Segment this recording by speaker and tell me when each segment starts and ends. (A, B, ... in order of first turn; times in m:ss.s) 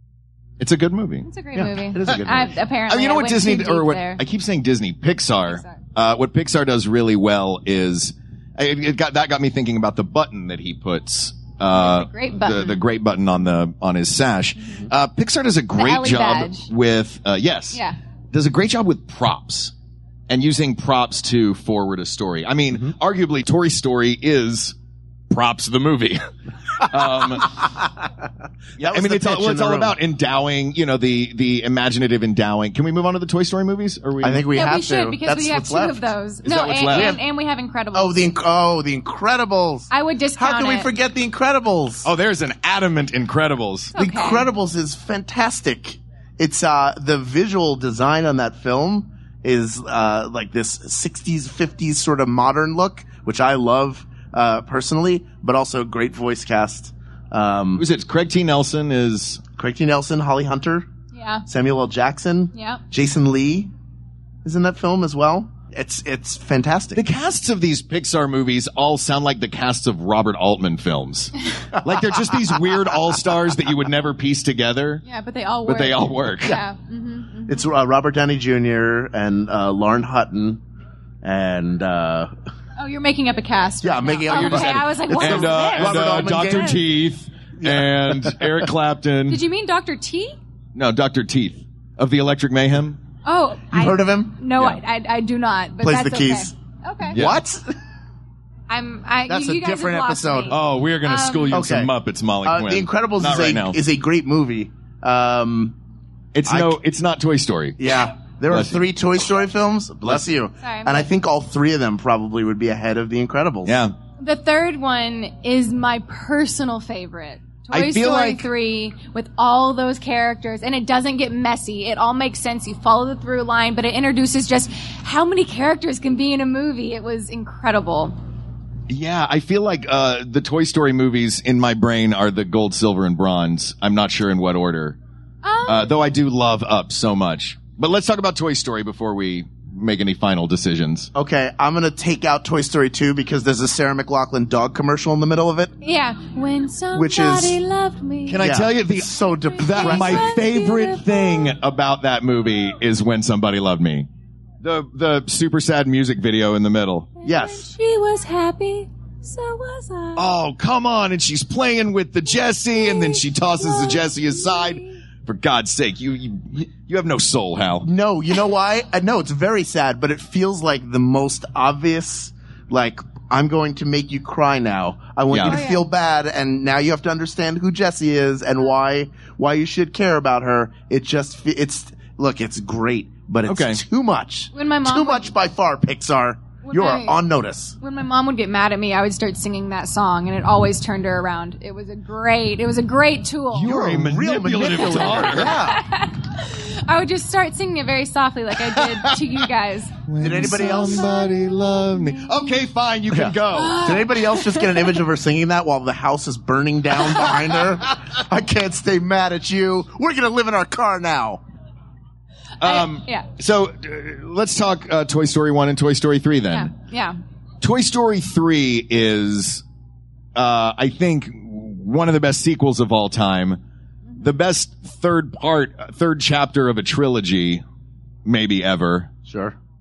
0:00.6-0:01.2 A
0:01.2-0:04.2 B
0:01.6-0:02.5 C
0:02.9-0:19.7 A
0:05.4-0:05.8 B
0:11.7-0:12.8 B
0:15.8-0:16.7 B
0:20.3-0:24.7 A
0:25.3-0:27.6 A
0:28.8-0:30.0 C
0:28.8-0:34.5 A
0:34.2-0:36.1 C
0:34.5-0:38.3 B
0:36.4-0:37.2 A
0:36.9-0:37.2 C
0:37.9-0:42.1 C
0:39.9-0:40.9 B
0:42.0-0:43.9 A
0:43.9-0:44.5 B
0:44.0-0:57.8 C
0:57.8-0:59.4 A
0:59.6-1:00.9 C
1:01.1-1:01.4 B
1:01.5-1:03.7 C
1:02.5-1:02.8 B
1:04.4-1:07.0 C
1:06.9-1:15.0 A
1:15.0-1:17.6 B
1:15.6-1:16.6 A
1:17.5-1:20.6 C
1:21.2-1:22.3 C
1:22.8-1:26.8 B
1:23.8-1:26.8 C
1:24.3-1:29.4 A
1:27.6-1:28.4 C
1:29.3-1:30.4 B
1:30.7-1:33.0 A
1:33.2-1:37.2 B
1:33.7-1:34.4 C
1:35.8-1:36.5 C
1:37.1-1:37.4 A
1:37.1-1:37.7 C
1:38.7-1:41.6 B
1:39.3-1:40.6 C
1:40.5-1:43.8 A
1:41.5-1:41.9 C
1:42.4-1:45.8 C
1:46.3-1:47.8 A
1:46.5-1:46.8 C
1:47.8-1:53.8 C
1:48.5-1:48.8 A
1:50.6-1:51.1 B
1:53.6-1:53.9 A
1:54.2-2:08.1 B
1:57.7-1:58.5 A
2:08.9-2:15.0 A
2:15.4-2:16.0 B
2:15.6-2:21.1 A
2:21.1-2:25.7 C
2:25.8-2:28.4 B
2:26.9-2:27.6 C
2:28.3-2:34.1 A
2:28.4-2:30.3 C
2:29.5-2:31.5 B
2:34.6-2:37.1 A
2:37.2-2:40.2 B
2:37.2-2:37.7 C
2:40.2-2:47.9 A
2:42.6-2:45.0 B
2:47.8-3:07.7 C
2:55.3-2:55.6 A
2:55.4-2:55.8 B
3:03.5-3:03.8 A
3:04.5-3:05.3 B
3:06.6-3:07.2 B
3:07.8-3:13.8 B
3:13.5-3:15.7 A
3:13.6-3:15.8 C
3:14.9-3:22.5 B
3:20.1-3:24.0 A
3:20.2-3:21.1 C
3:23.1-3:31.4 C
3:23.5-3:25.0 B
3:32.6-3:33.3 B
3:32.6-3:36.7 A
3:36.5-3:37.2 B
3:37.6-3:39.6 A
3:40.3-3:43.6 A
3:44.2-3:47.6 A
3:48.2-3:49.1 A
3:49.3-3:49.6 C